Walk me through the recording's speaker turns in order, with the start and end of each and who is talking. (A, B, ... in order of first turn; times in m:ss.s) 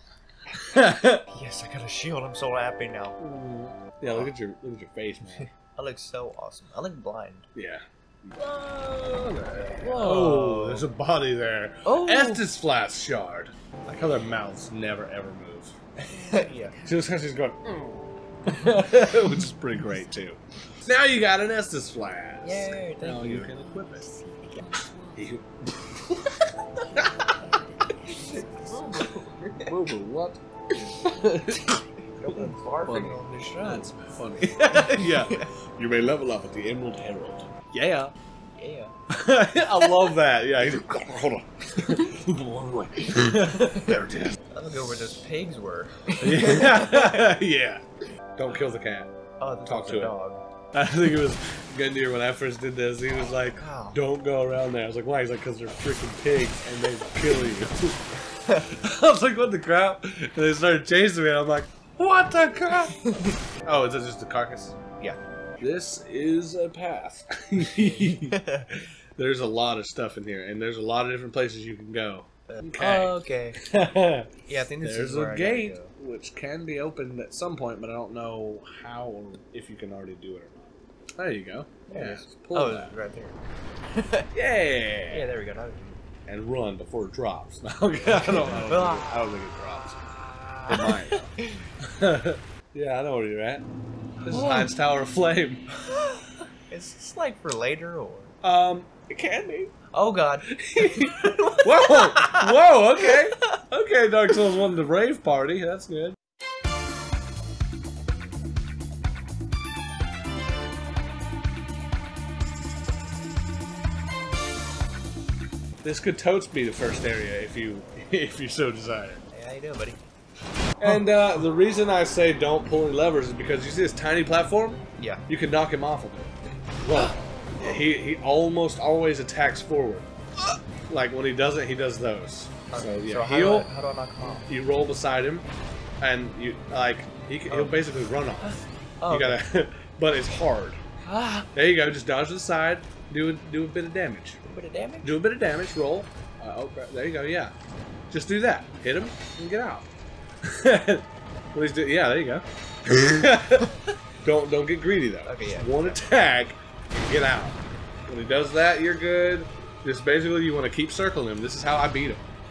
0:00.6-0:01.2 A
0:01.3-0:03.2 B
0:03.2-0:05.5 A
0:05.3-0:07.5 B
0:07.6-0:15.8 A
0:09.8-0:10.9 B
0:11.8-0:12.4 B
0:16.1-0:16.9 B
0:16.8-0:24.1 A
0:22.4-0:23.5 B
0:25.2-0:27.3 A
0:28.0-0:29.8 B
0:29.0-0:38.1 A
0:30.8-0:34.1 B
0:34.6-0:35.5 B
0:38.6-0:38.9 B
0:39.1-0:44.4 A
0:39.8-0:40.1 B
0:43.9-0:47.3 B
0:46.2-0:47.8 A
0:48.4-0:49.1 A
0:49.4-0:50.4 B
0:49.7-0:50.2 A
0:50.7-0:58.0 A
0:53.6-0:54.0 B
0:58.6-1:03.0 A
1:03.0-1:03.4 B
1:03.6-1:04.8 A
1:05.6-1:22.9 A
1:07.6-1:08.8 B
1:12.5-1:13.6 B
1:14.5-1:15.9 B
1:21.9-1:23.4 B
1:23.9-1:24.3 B
1:24.3-1:25.3 A
1:25.1-1:26.0 B
1:26.3-1:30.1 A
1:28.0-1:29.4 B
1:30.2-1:31.7 B
1:30.7-1:33.6 A
1:34.2-1:35.6 A
1:34.3-1:34.7 B
1:35.8-1:38.4 B
1:38.4-1:39.8 A
1:39.9-1:43.6 B
1:40.4-1:46.2 A
1:55.8-1:59.2 A
1:59.3-2:00.0 B
2:00.8-2:10.1 A
2:05.0-2:05.2 B
2:10.9-2:13.7 A
2:12.7-2:14.5 B
2:14.5-2:15.5 A
2:16.0-2:20.8 A
2:17.5-2:17.9 B
2:18.4-2:19.4 B
2:21.1-2:21.5 B
2:21.5-2:24.4 A
2:24.4-2:25.1 B
2:25.0-2:27.5 A
2:28.1-2:29.9 A
2:30.4-2:42.3 A
2:35.2-2:36.1 B